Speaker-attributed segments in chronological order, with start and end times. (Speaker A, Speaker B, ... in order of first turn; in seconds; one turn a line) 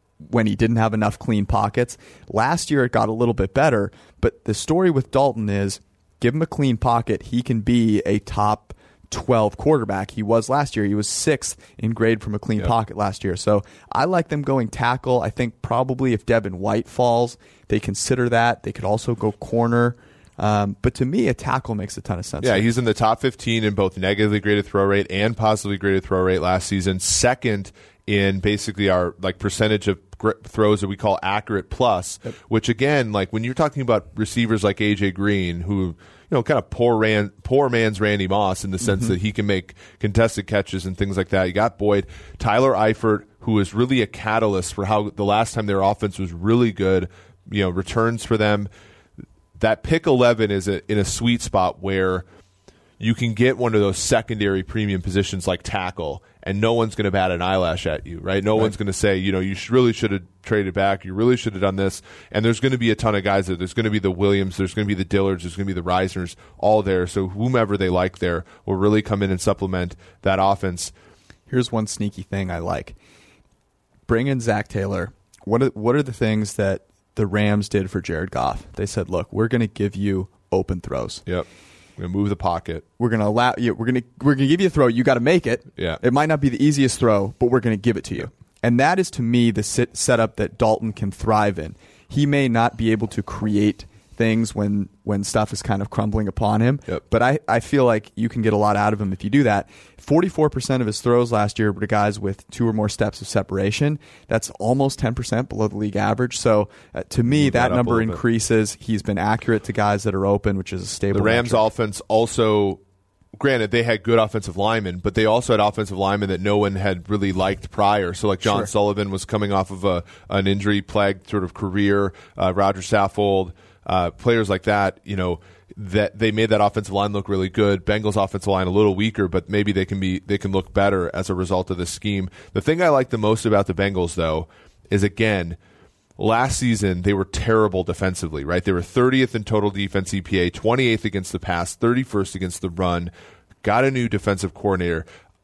Speaker A: 0.2-22.7
Speaker B: 22.4-48.7
Speaker B: 49.5-52.2
Speaker B: 53.0-70.9
Speaker A: 71.5-73.0
Speaker A: 74.1-81.2
Speaker B: 81.2-82.8
Speaker A: 83.0-111.6
Speaker B: 107.3-108.2
Speaker B: 111.1-112.8
Speaker B: 113.3-135.6
Speaker B: 136.2-143.1
Speaker B: 143.6-145.1